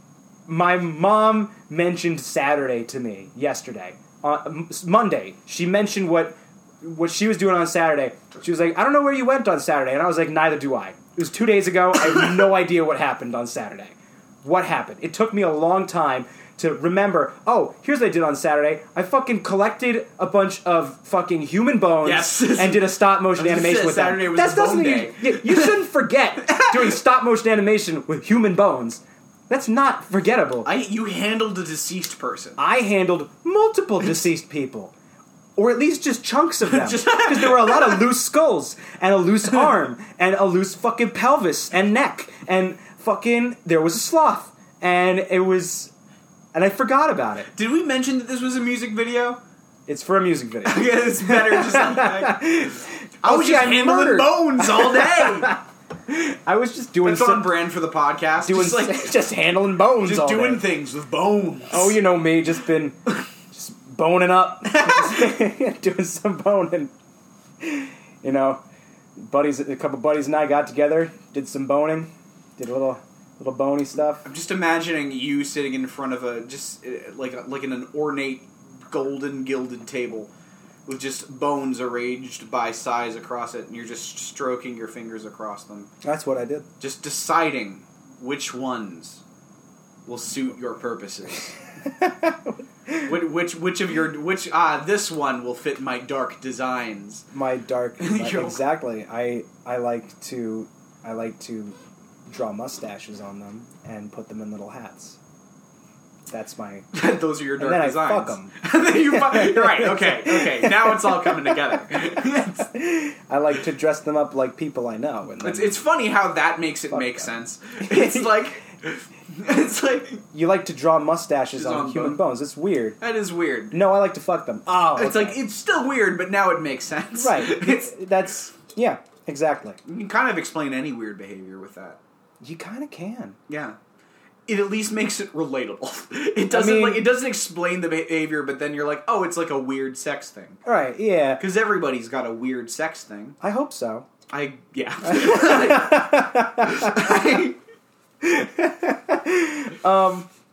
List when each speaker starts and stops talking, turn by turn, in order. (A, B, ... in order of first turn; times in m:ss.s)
0:00.5-0:30.7 A
0:12.1-0:12.5 B
0:22.0-0:25.8 B
0:26.5-0:27.0 B
0:30.6-0:32.6 B
0:32.6-0:34.9 A
0:35.6-0:45.9 A
0:36.7-0:38.0 B
0:46.5-0:47.5 A
0:47.5-0:49.4 B
0:49.9-0:57.5 A
0:50.6-0:52.5 B
0:53.2-0:55.5 B
0:57.0-0:59.2 B
0:58.4-1:00.6 A
1:00.0-1:02.0 B
1:01.7-1:03.0 A
1:03.5-1:06.9 A
1:07.6-1:08.6 A
1:09.2-1:14.3 A
1:14.2-1:20.3 B
1:20.9-1:25.9 B
1:26.0-1:26.7 A
1:26.8-1:29.2 B
1:30.1-1:31.5 B
1:32.0-1:33.1 A
1:33.1-1:37.2 B
1:37.3-1:41.8 A
1:38.0-1:38.6 B
1:42.3-1:45.2 A
1:46.3-1:46.9 A
1:46.9-1:52.7 B
1:47.6-1:48.6 A
1:49.1-1:51.9 A
1:52.5-1:55.8 A
1:55.4-2:00.2 B
1:56.9-1:58.4 A
2:00.3-2:03.0 A
2:01.5-2:02.2 B
2:03.0-2:03.7 B
2:03.7-2:05.4 A
2:05.0-2:07.9 B
2:07.2-2:09.8 A
2:09.8-2:12.0 B
2:12.4-2:13.4 A
2:13.5-2:13.8 B
2:14.5-2:20.6 B
2:16.5-2:17.1 A
2:20.6-2:21.4 A
2:21.4-2:23.4 B
2:23.4-2:24.1 A
2:24.3-2:27.6 B
2:25.0-2:27.2 A
2:28.2-2:30.3 A